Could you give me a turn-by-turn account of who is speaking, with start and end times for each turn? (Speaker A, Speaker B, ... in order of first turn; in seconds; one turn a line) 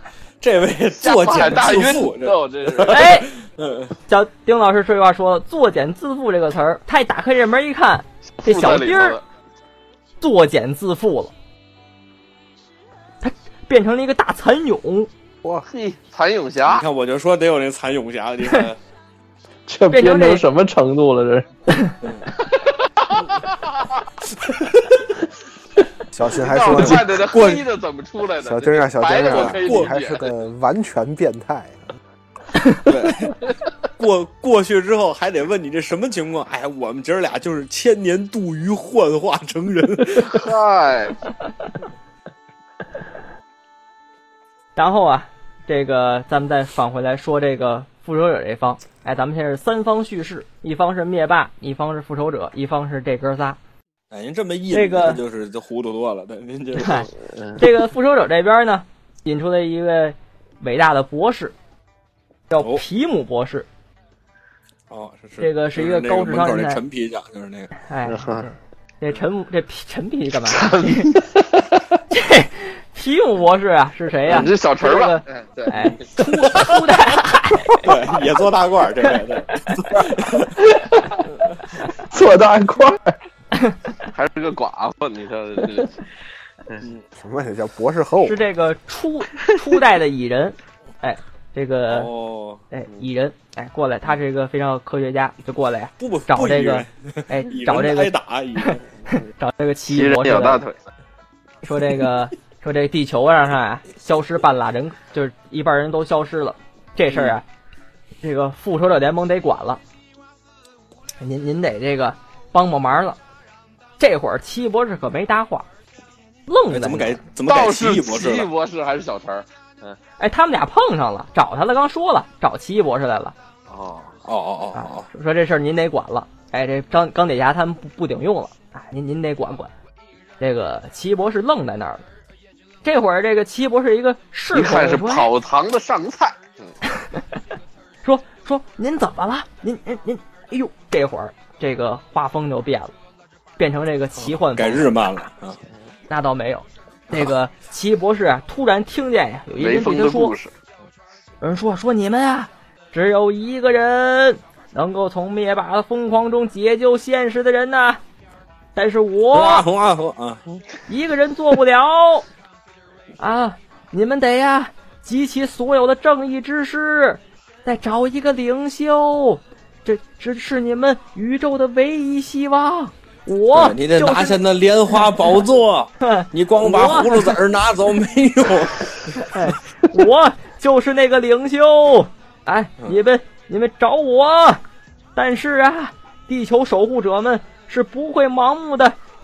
Speaker A: 0.4-3.9
Speaker B: 1.0-3.1
Speaker C: 2.9-3.3
Speaker C: 4.1-9.2
Speaker B: 8.4-9.2
Speaker C: 10.2-11.3
Speaker C: 13.2-15.1
Speaker B: 15.7-16.8
Speaker A: 16.6-18.8
Speaker D: 19.7-21.5
Speaker C: 19.9-20.4
Speaker A: 22.0-22.3
Speaker A: 24.5-24.9
Speaker E: 26.1-27.5
Speaker B: 26.3-30.3
Speaker A: 26.8-27.6
Speaker E: 28.4-31.9
Speaker A: 29.3-30.0
Speaker A: 32.9-33.4
Speaker A: 34.0-40.4
Speaker B: 40.1-41.2
Speaker C: 44.8-53.6
Speaker A: 54.1-57.1
Speaker C: 54.7-55.2
Speaker C: 56.8-61.5
Speaker C: 62.5-63.6
Speaker A: 64.9-67.7
Speaker C: 65.4-66.8
Speaker C: 67.8-71.2
Speaker B: 68.1-68.4
Speaker B: 70.5-71.2
Speaker C: 72.1-78.0
Speaker B: 74.3-76.0
Speaker A: 76.4-76.8
Speaker A: 77.8-80.7
Speaker D: 80.7-81.2
Speaker D: 82.1-83.2
Speaker B: 84.1-86.0
Speaker E: 87.2-88.4
Speaker C: 88.2-92.1
Speaker A: 91.9-92.6
Speaker C: 92.7-98.1
Speaker A: 96.0-98.8
Speaker C: 98.7-100.6
Speaker B: 99.9-100.8
Speaker C: 101.6-107.4
Speaker C: 108.2-109.8
Speaker C: 111.2-113.2
Speaker C: 114.0-115.7
Speaker C: 116.5-117.2
Speaker A: 116.7-118.5
Speaker B: 117.5-120.0
Speaker C: 120.2-123.3
Speaker B: 123.7-124.1
Speaker A: 124.2-125.1
Speaker C: 124.7-129.7
Speaker C: 130.4-132.0
Speaker C: 132.8-135.3
Speaker B: 134.5-136.7
Speaker C: 136.9-137.2
Speaker C: 138.0-142.9
Speaker C: 143.6-144.8
Speaker A: 144.4-145.6
Speaker C: 146.1-150.3
Speaker B: 149.6-150.5
Speaker C: 151.4-158.0
Speaker C: 158.7-159.7
Speaker A: 159.3-160.4
Speaker C: 160.9-162.2
Speaker C: 163.2-174.4
Speaker A: 173.5-179.2
Speaker C: 176.0-177.4
Speaker C: 179.2-184.6
Speaker C: 185.2-188.9